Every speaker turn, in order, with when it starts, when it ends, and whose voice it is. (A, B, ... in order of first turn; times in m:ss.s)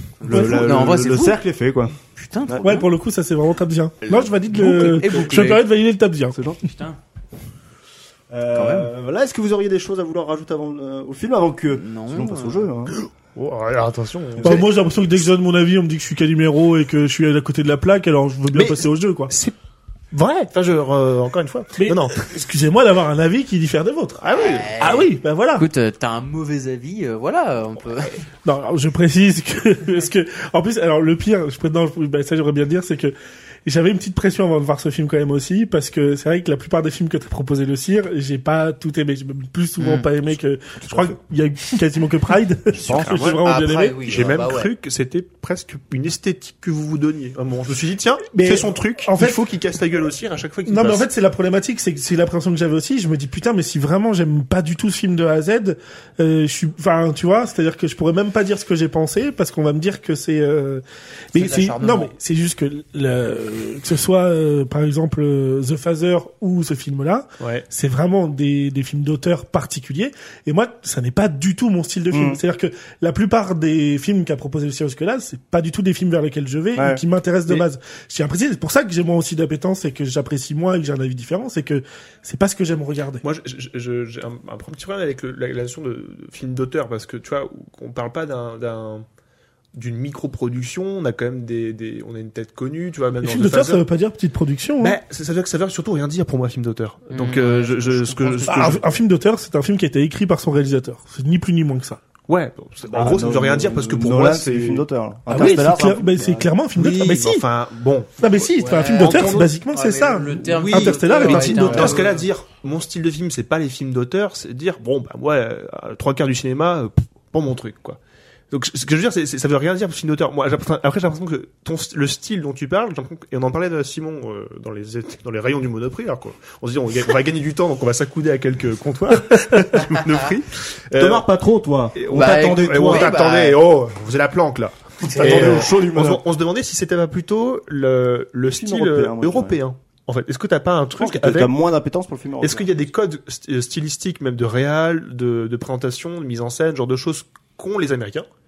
0:00.2-0:01.4 A
0:00.2-0:02.7 B
0:00.3-0:00.9 C
0:02.2-0:02.9 A
0:02.6-0:06.4 C
0:04.1-0:05.7 A
0:04.5-0:05.3 B
0:06.3-0:06.6 B
0:06.6-0:07.0 A
0:08.3-0:12.9 B
0:08.5-0:08.9 A
0:11.7-0:12.6 A
0:13.3-0:14.7 D
0:14.4-0:19.3 C
0:18.5-0:19.6 D
0:20.1-0:22.3 D
0:21.8-0:24.2 C
0:24.2-0:24.8 D
0:24.4-0:28.2 A
0:24.8-0:25.6 C
0:28.4-0:44.2 C
0:39.8-0:40.1 A
0:40.8-0:41.1 B
0:42.7-0:43.4 B
0:43.1-0:43.4 D
0:43.4-0:44.7 A
0:44.0-0:51.1 D
0:48.3-0:49.4 C
0:50.6-1:23.2 C
1:01.3-1:02.1 A
1:07.4-1:07.6 D
1:12.1-1:12.4 B
1:16.8-1:17.0 B
1:23.2-1:29.0 D
1:29.7-1:33.8 D
1:33.2-1:35.0 C
1:34.8-1:38.8 D
1:37.1-1:38.8 A
1:38.5-1:42.0 C
1:42.3-1:45.7 D
1:42.9-1:46.5 B
1:45.3-1:47.4 C
1:46.7-1:49.5 D
1:48.2-1:52.0 C
1:48.6-1:52.2 A
1:50.5-1:58.0 D
1:58.5-2:11.2 D
2:11.0-2:13.1 B
2:11.9-2:21.5 D
2:12.1-2:13.6 A
2:15.0-2:16.2 B
2:15.1-2:15.6 A
2:18.5-2:19.6 B
2:21.0-2:22.7 B
2:22.4-2:28.2 D